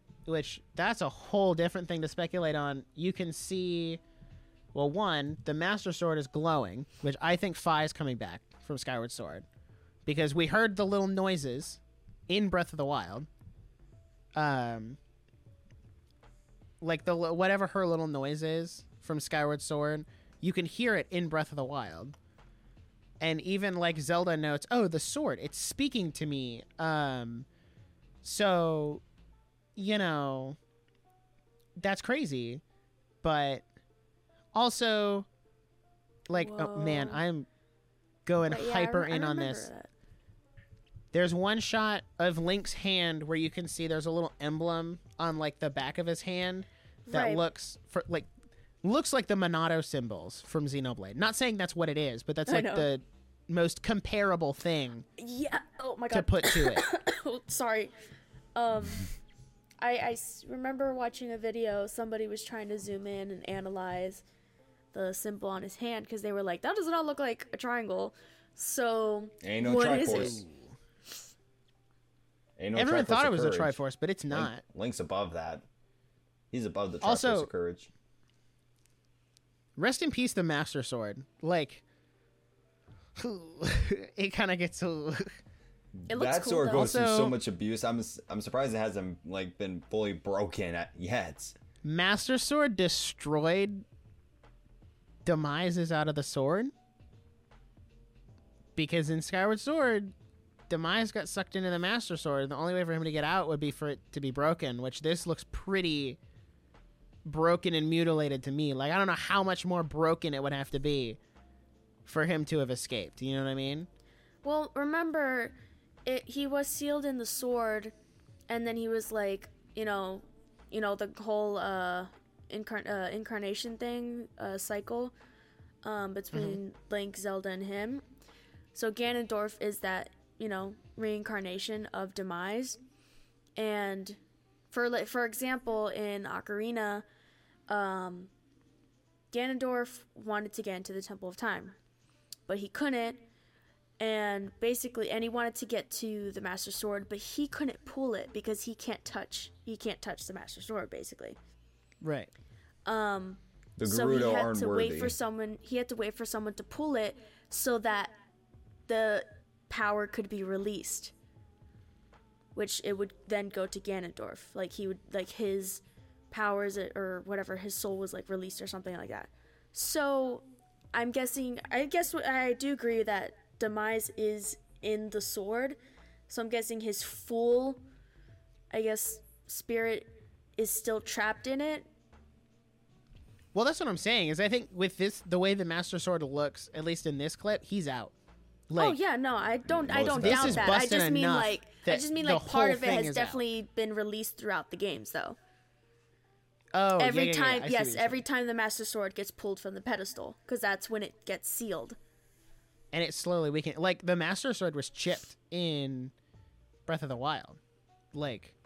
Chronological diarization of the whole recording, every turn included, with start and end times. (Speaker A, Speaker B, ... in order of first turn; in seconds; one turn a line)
Speaker A: 0.2-4.0
Speaker A: 4.7-9.4
Speaker A: 10.1-13.3
Speaker A: 14.3-15.0
Speaker A: 16.8-22.1
Speaker A: 23.2-27.5
Speaker A: 28.2-29.0
Speaker A: 29.8-30.6
Speaker A: 31.8-32.6
Speaker A: 33.2-33.6
Speaker A: 34.5-35.3
Speaker A: 36.3-37.5
Speaker B: 36.3-37.2
Speaker A: 38.2-39.7
Speaker B: 38.5-39.9
Speaker A: 41.1-48.3
Speaker B: 47.1-47.4
Speaker A: 48.8-55.0
Speaker B: 52.5-52.9
Speaker B: 55.2-57.9
Speaker A: 56.1-56.8
Speaker B: 58.5-59.1
Speaker B: 59.8-64.2
Speaker B: 64.9-70.4
Speaker C: 69.4-70.4
Speaker A: 70.0-70.8
Speaker C: 72.6-73.8
Speaker A: 72.8-74.6
Speaker C: 74.3-75.6
Speaker C: 76.5-77.9
Speaker A: 77.0-77.5
Speaker A: 79.8-81.8
Speaker A: 83.2-85.4
Speaker C: 86.0-91.5
Speaker B: 86.1-86.9
Speaker A: 86.7-87.3
Speaker A: 91.8-93.8
Speaker A: 95.2-96.7
Speaker A: 98.8-100.1
Speaker A: 100.7-106.2
Speaker A: 107.2-111.2
Speaker A: 112.0-113.9
Speaker B: 114.4-115.5
Speaker B: 116.0-117.9
Speaker B: 118.5-125.1
Speaker B: 125.8-128.0
Speaker A: 126.3-126.6
Speaker B: 128.7-132.8
Speaker B: 133.6-134.2
Speaker B: 134.7-137.0
Speaker B: 137.7-138.3
Speaker B: 139.3-141.8
Speaker B: 142.5-143.2
Speaker B: 144.0-151.4
Speaker A: 152.0-152.3
Speaker B: 152.8-158.1
Speaker C: 153.8-155.1
Speaker B: 158.9-161.1
Speaker B: 162.5-175.8
Speaker B: 176.3-177.8
Speaker B: 178.7-181.9
Speaker A: 183.5-188.1
Speaker A: 188.7-189.0
Speaker B: 188.8-195.4
Speaker C: 189.7-190.8
Speaker A: 190.2-193.4
Speaker A: 196.7-198.2
Speaker B: 197.0-202.0
Speaker A: 202.9-206.1
Speaker A: 206.8-207.6
Speaker A: 208.1-208.5